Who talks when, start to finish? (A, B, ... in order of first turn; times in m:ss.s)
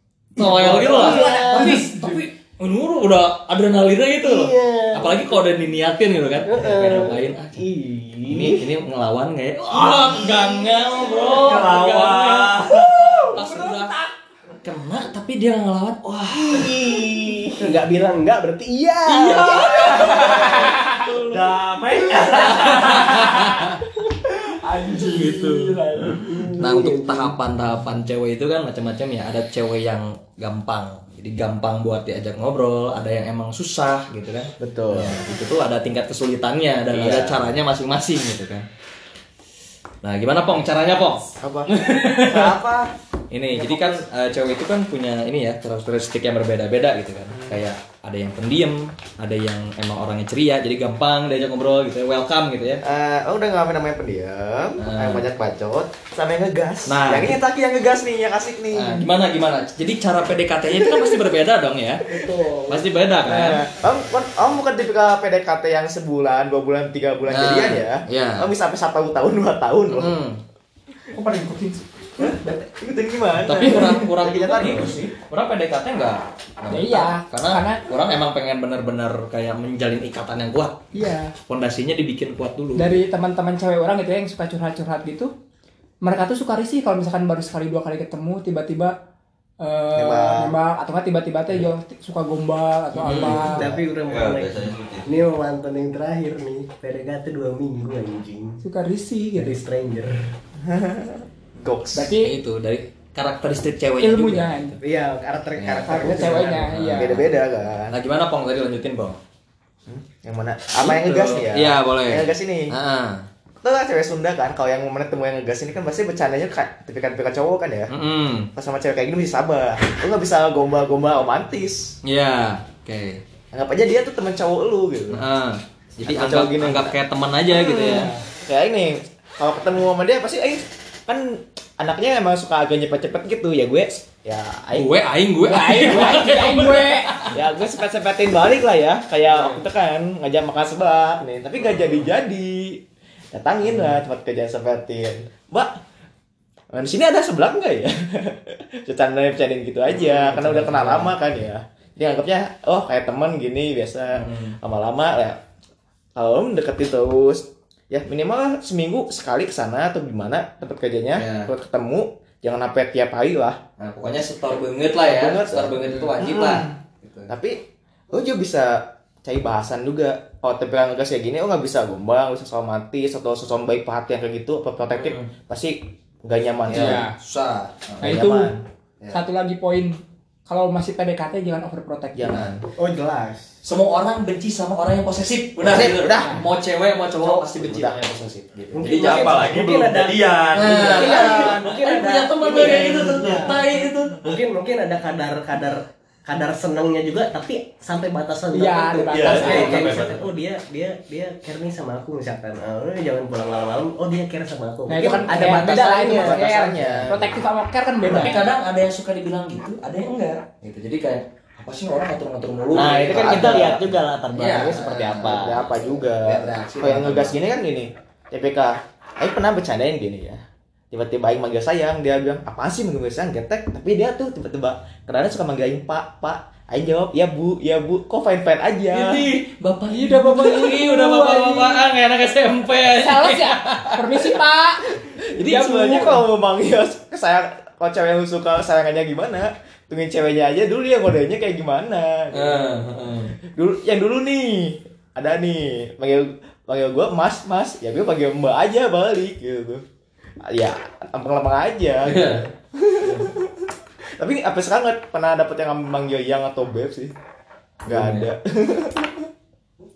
0:00.4-0:07.6 A
0:00.4-0:01.8 B
0:00.6-0:02.2 C
0:04.2-0:05.2 B
0:06.4-0:08.7 B
0:08.3-0:12.6 A
0:09.7-0:13.4 D
0:13.3-0:14.0 A
0:13.3-0:14.1 C
0:14.6-0:16.9 A
0:16.3-0:20.3 B
0:19.1-0:21.1 A
0:19.6-0:21.1 C
0:20.8-0:23.2 D
0:22.2-0:23.6 C
0:22.4-0:23.8 A
0:24.6-0:26.4 C
0:24.9-0:25.8 A
0:26.0-0:27.4 B
0:26.6-0:38.7 A
0:34.6-0:35.2 B
0:36.9-0:37.5 B
0:40.0-0:42.6 A
0:41.4-0:42.9 E
0:43.3-0:52.8 A
0:43.5-0:44.0 E
0:47.3-0:47.6 E
0:52.8-0:59.0 E
0:54.8-0:55.2 A
0:56.8-0:57.4 A
0:58.7-1:02.1 A
1:00.7-1:01.2 E
1:02.1-1:02.8 C
1:02.6-1:03.6 A
1:03.2-1:10.2 E
1:07.3-1:08.5 A
1:09.9-1:10.4 A
1:11.1-1:12.6 C
1:12.2-1:15.1 E
1:13.4-1:20.9 A
1:16.7-1:17.8 C
1:20.9-1:21.3 C
1:21.5-1:22.9 A
1:22.7-1:25.3 C
1:26.0-1:28.9 C
1:29.6-1:33.7 C
1:29.9-1:30.5 E
1:32.9-1:33.6 A
1:33.2-1:38.6 B
1:33.4-1:33.8 E
1:34.1-1:35.1 D
1:38.6-1:39.6 C
1:39.3-1:40.3 B
1:40.6-1:42.2 E
1:41.9-1:42.4 C
1:42.2-1:44.8 A
1:44.0-1:44.8 C
1:44.8-1:46.8 B
1:45.6-1:46.0 A
1:45.9-1:47.2 C
1:46.7-1:47.3 A
1:46.9-1:47.9 E
1:47.9-1:49.2 A
1:49.9-1:52.7 E
1:50.8-1:53.3 A
1:53.6-1:57.9 E
1:57.9-1:58.5 A
1:58.5-2:02.0 E
2:02.0-2:03.2 A
2:03.5-2:05.2 E
2:05.1-2:08.1 A
2:06.0-2:07.0 E
2:07.8-2:08.2 C
2:08.4-2:14.9 E
2:14.7-2:17.3 A
2:15.4-2:17.3 C
2:15.8-2:16.2 E
2:17.3-2:25.8 E
2:26.7-2:35.4 E
2:29.9-2:31.1 A
2:34.1-2:34.6 A
2:36.2-2:43.6 E
2:41.2-2:41.5 A
2:43.8-2:47.3 A
2:45.0-2:46.7 E
2:47.3-2:47.6 E
2:48.1-2:57.0 E
2:55.0-2:55.3 A
2:56.7-2:58.2 A
2:56.7-2:57.1 C
2:58.0-2:58.5 C
2:58.0-2:58.6 E
2:59.1-3:02.5 C
3:02.1-3:02.4 E
3:02.2-3:02.6 A
3:02.8-3:03.5 B
3:03.6-3:09.5 A
3:05.6-3:06.4 E
3:07.2-3:08.0 E
3:08.7-3:13.6 B
3:08.8-3:11.5 D
3:10.5-3:14.2 A
3:13.0-3:13.5 D
3:13.1-3:13.5 C
3:14.2-3:27.4 B
3:18.5-3:20.1 C
3:19.1-3:20.3 D
3:19.3-3:19.8 A
3:24.9-3:28.5 C
3:25.0-3:27.4 E
3:25.2-3:26.0 A
3:28.0-3:33.8 A
3:32.7-3:35.6 B
3:32.8-3:33.8 E
3:34.3-3:35.5 A
3:35.2-3:49.2 E
3:36.1-3:37.4 A
3:48.9-3:54.3 A
3:49.9-3:51.8 C
3:52.9-3:56.2 C
3:55.4-4:02.8 E
4:02.3-4:03.3 A
4:03.5-4:09.8 E
4:10.4-4:17.1 E
4:12.0-4:12.5 A
4:17.8-4:18.3 A
4:17.9-4:19.3 E